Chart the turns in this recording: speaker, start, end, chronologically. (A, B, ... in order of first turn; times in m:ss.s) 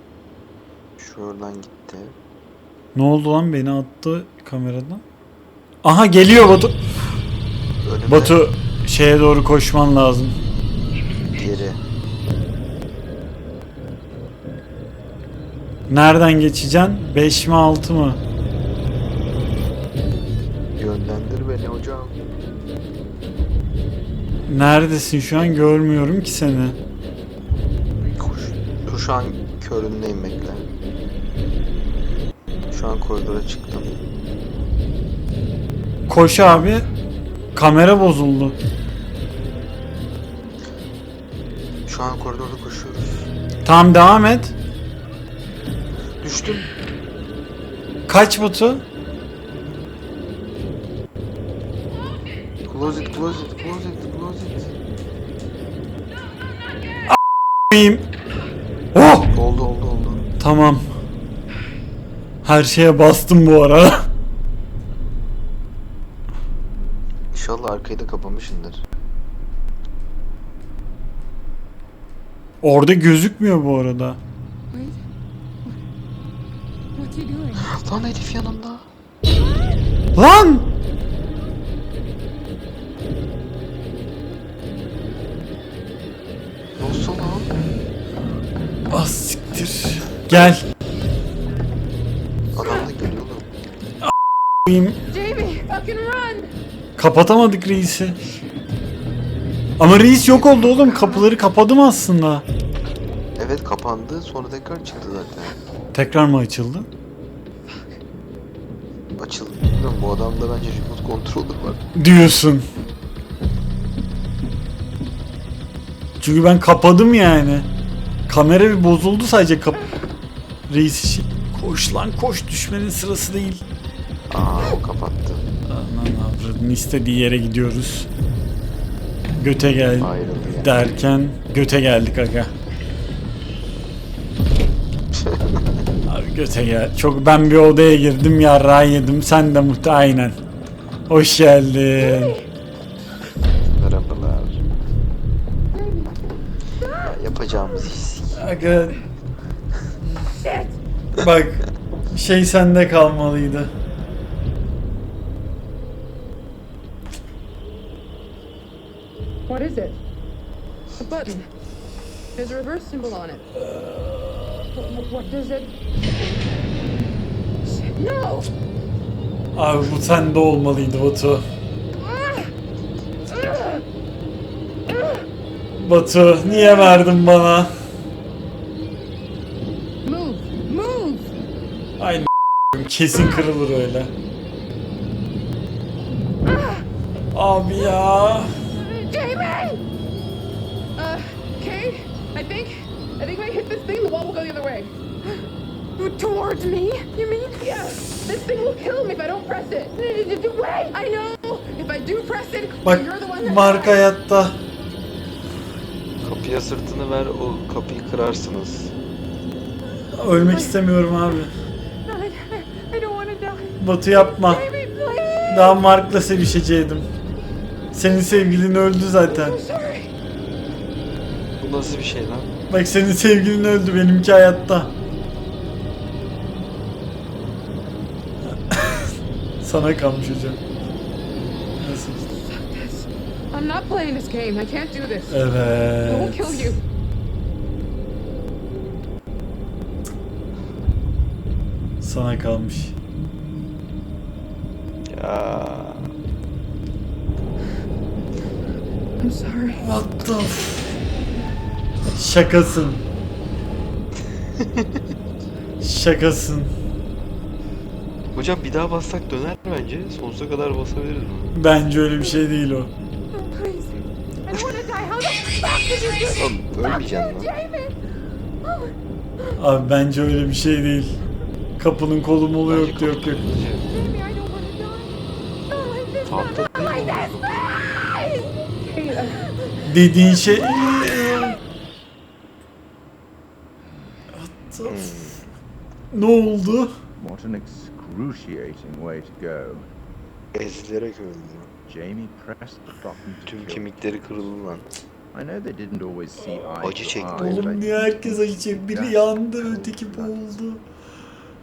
0:01.0-0:02.1 A
0:02.9-0:05.0 B
0:05.8-0:06.8 B
0:07.8-0:08.4 A
0:08.1-0:10.3 B
0:11.3-0:11.8 A
0:15.9-0:18.2 B
0:20.8-0:22.2 A
0:24.5-0:26.8 B
0:28.0-0:30.6 A
0:32.7-0:33.9 A
0:36.1-0:36.9 B
0:37.5-0:38.6 B
0:41.9-0:43.3 A
0:43.6-0:44.6 B
0:46.2-0:46.7 A
0:48.1-0:48.8 B
0:52.7-0:54.7 A
0:57.7-0:58.0 B
0:58.9-0:59.3 B
0:59.3-1:00.3 A
1:00.4-1:00.8 B
1:02.4-1:04.1 B
1:07.3-1:08.8 A
1:12.6-1:14.2 B
1:14.7-1:15.0 C
1:16.9-1:17.7 C
1:17.6-1:18.8 A
1:20.1-1:20.6 B
1:26.8-1:27.5 A
1:28.9-1:30.6 B
1:32.5-1:33.5 A
1:34.6-1:35.0 B
1:35.1-1:36.5 D
1:37.0-1:38.2 B
1:39.8-1:42.4 B
1:40.3-1:40.9 A
1:43.4-1:45.6 A
1:45.9-1:46.9 B
1:47.7-1:48.0 D
1:49.1-1:51.8 A
1:51.9-1:52.7 B
1:56.2-1:57.7 B
1:58.3-1:59.9 B
2:00.7-2:03.6 B
2:04.3-2:05.4 A
2:05.7-2:08.1 B
2:09.4-2:12.5 B
2:10.0-2:10.8 A
2:15.1-2:15.8 A
2:16.0-2:20.4 B
2:21.1-2:22.4 B
2:23.6-2:24.6 A
2:26.9-2:28.4 A
2:28.3-2:29.0 B
2:30.4-2:30.7 D
2:31.2-2:33.7 B
2:39.5-2:39.9 D
2:39.6-2:40.0 C
2:41.0-2:41.5 D
2:42.3-2:43.5 D
2:43.7-2:44.2 B
2:44.8-2:45.2 D
2:44.9-2:45.7 C
2:47.6-2:48.5 D
2:49.5-2:51.4 B
2:53.3-2:53.8 D
2:55.8-2:57.7 B
3:00.0-3:01.3 C
3:02.0-3:04.1 B
3:06.5-3:06.8 D
3:07.3-3:08.5 B
3:08.8-3:09.8 D
3:11.0-3:15.0 D
3:16.0-3:24.0 D
3:22.8-3:24.6 B
3:26.2-3:28.9 A
3:30.1-3:31.5 B
3:32.1-3:33.7 D
3:33.8-3:34.7 B
3:34.4-3:35.7 D
3:35.5-3:37.1 B
3:37.9-3:39.6 B
3:39.3-3:40.1 D
3:41.6-3:42.5 A
3:42.7-3:45.0 B
3:48.4-3:50.6 B
3:51.8-3:52.3 B
3:52.3-3:55.4 D
3:55.3-3:56.8 B
3:56.0-3:56.8 D
4:02.0-4:03.0 B
4:05.1-4:06.1 A
4:09.2-4:09.9 C
4:09.7-4:11.0 B
4:12.1-4:13.0 B
4:14.6-4:14.9 A
4:15.8-4:16.7 B
4:18.3-4:21.6 A
4:21.5-4:22.9 B
4:23.3-4:28.0 C
4:26.1-4:27.5 A
4:28.6-4:28.9 C
4:29.6-4:31.2 B
4:31.8-4:33.4 B
4:32.7-4:33.9 A
4:33.9-4:35.2 C
4:35.7-4:38.4 C
4:36.2-4:37.8 A
4:38.6-4:39.5 D
4:39.8-4:41.6 B
4:44.3-4:45.4 B
4:44.8-4:45.4 A
4:46.1-4:46.9 B
4:47.2-4:49.9 E
4:50.5-4:51.7 A
4:51.9-4:54.5 E
4:53.4-4:54.9 A
4:55.3-5:00.4 E
4:56.4-4:56.7 B
4:56.8-4:57.8 A
4:57.3-5:00.8 B